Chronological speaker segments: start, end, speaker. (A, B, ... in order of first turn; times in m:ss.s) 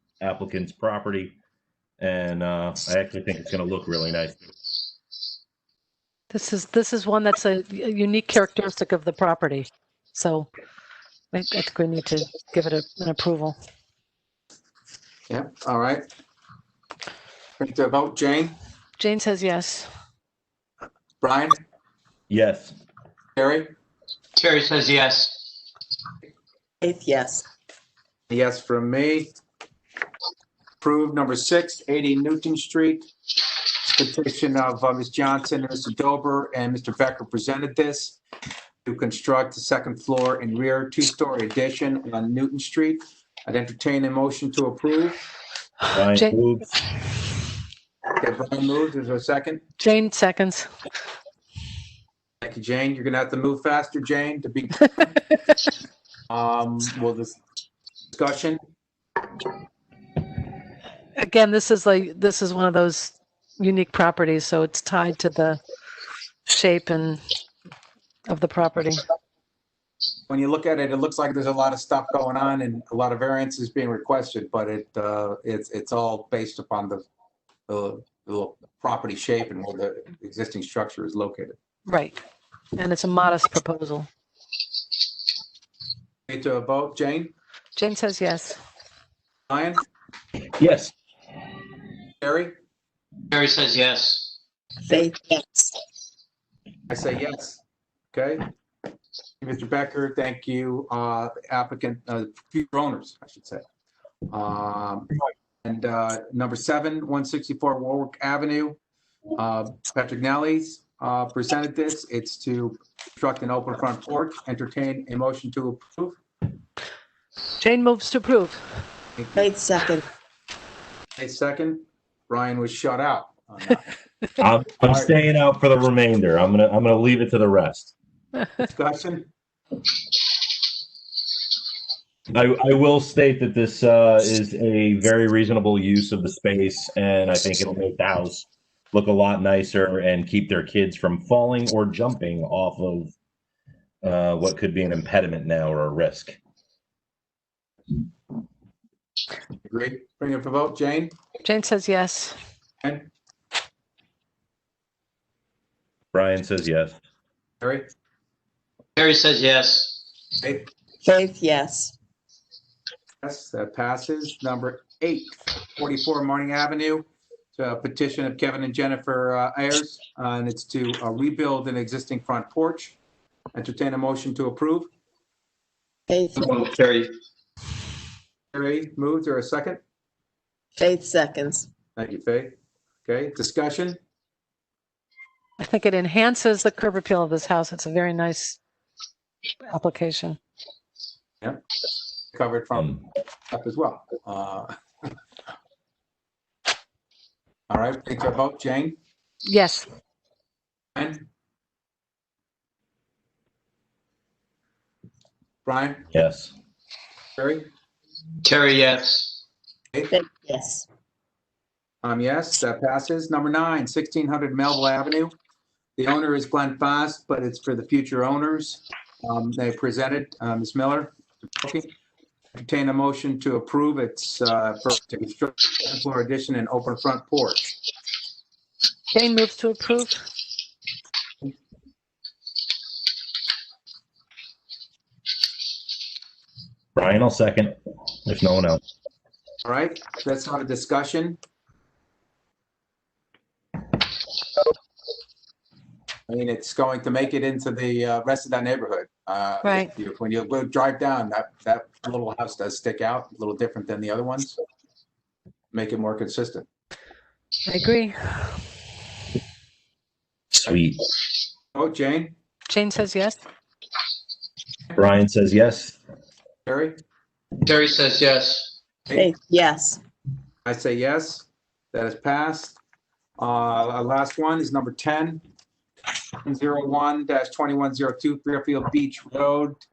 0:00.2-0:01.4 A
0:02.0-0:04.5 A
0:06.3-0:10.5 B
0:11.3-0:13.6 B
0:15.3-0:16.0 C
0:17.6-0:18.6 C
0:19.0-0:19.9 B
0:21.2-0:21.6 C
0:22.3-0:22.7 A
0:23.4-0:23.7 C
0:24.4-0:25.4 D
0:26.8-0:27.5 E
0:28.3-0:29.3 C
0:30.8-0:33.1 C
0:33.8-0:38.2 C
0:38.8-0:45.2 C
0:45.9-0:46.7 A
0:48.2-0:49.6 C
0:49.8-0:50.7 B
0:52.4-0:55.2 C
0:56.3-0:57.4 C
0:58.1-0:58.6 C
1:01.2-1:05.6 B
1:06.5-1:07.2 B
1:08.3-1:09.0 B
1:10.3-1:17.0 C
1:17.7-1:21.6 C
1:21.9-1:22.2 B
1:22.8-1:24.1 B
1:26.3-1:27.3 C
1:27.8-1:28.6 B
1:29.5-1:29.8 C
1:30.6-1:30.9 A
1:32.2-1:32.5 C
1:33.3-1:34.3 D
1:34.8-1:35.8 E
1:36.9-1:37.6 C
1:38.1-1:38.5 C
1:39.4-1:43.6 C
1:44.3-1:45.1 C
1:45.6-1:48.8 C
1:49.4-1:56.2 C
1:57.6-1:58.6 B
1:59.2-1:59.5 C
1:59.4-2:00.1 E
2:01.2-2:03.8 C
2:04.4-2:07.9 A
2:04.9-2:05.1 C
2:08.6-2:09.3 C
2:12.3-2:23.1 A
2:24.0-2:26.4 A
2:29.6-2:31.1 C
2:31.4-2:32.4 B
2:32.8-2:33.1 C
2:36.1-2:37.0 A
2:37.6-2:37.9 C
2:39.0-2:39.9 D
2:40.4-2:40.7 C
2:41.0-2:42.0 E
2:43.2-2:53.0 C
2:53.5-2:54.9 C
2:56.1-2:56.5 E
2:56.4-2:57.1 D
2:58.5-2:59.8 C
3:00.8-3:01.7 E
3:02.0-3:02.5 C
3:03.1-3:04.0 C
3:05.6-3:08.6 B
3:09.6-3:10.4 B
3:12.3-3:13.0 C
3:13.5-3:15.1 C
3:17.7-3:19.0 C
3:19.4-3:19.9 B
3:21.0-3:21.3 C
3:25.7-3:26.0 C
3:26.1-3:26.5 A
3:27.4-3:27.7 C
3:28.4-3:29.3 D
3:30.1-3:30.9 E
3:32.0-3:35.3 C
3:36.0-3:41.9 C
3:42.6-3:47.8 C
3:49.1-3:50.2 B
3:57.0-3:58.8 A
3:59.6-4:01.4 C
4:06.3-4:14.6 C
4:09.6-4:09.9 B
4:15.7-4:16.7 C
4:17.7-4:18.6 B
4:20.5-4:21.0 A
4:21.8-4:22.4 C
4:22.7-4:23.4 B
4:25.0-4:26.0 A
4:26.7-4:27.0 C
4:27.6-4:28.7 D
4:29.1-4:30.0 E
4:30.6-4:32.8 C
4:33.4-4:35.4 C
4:36.4-4:39.8 C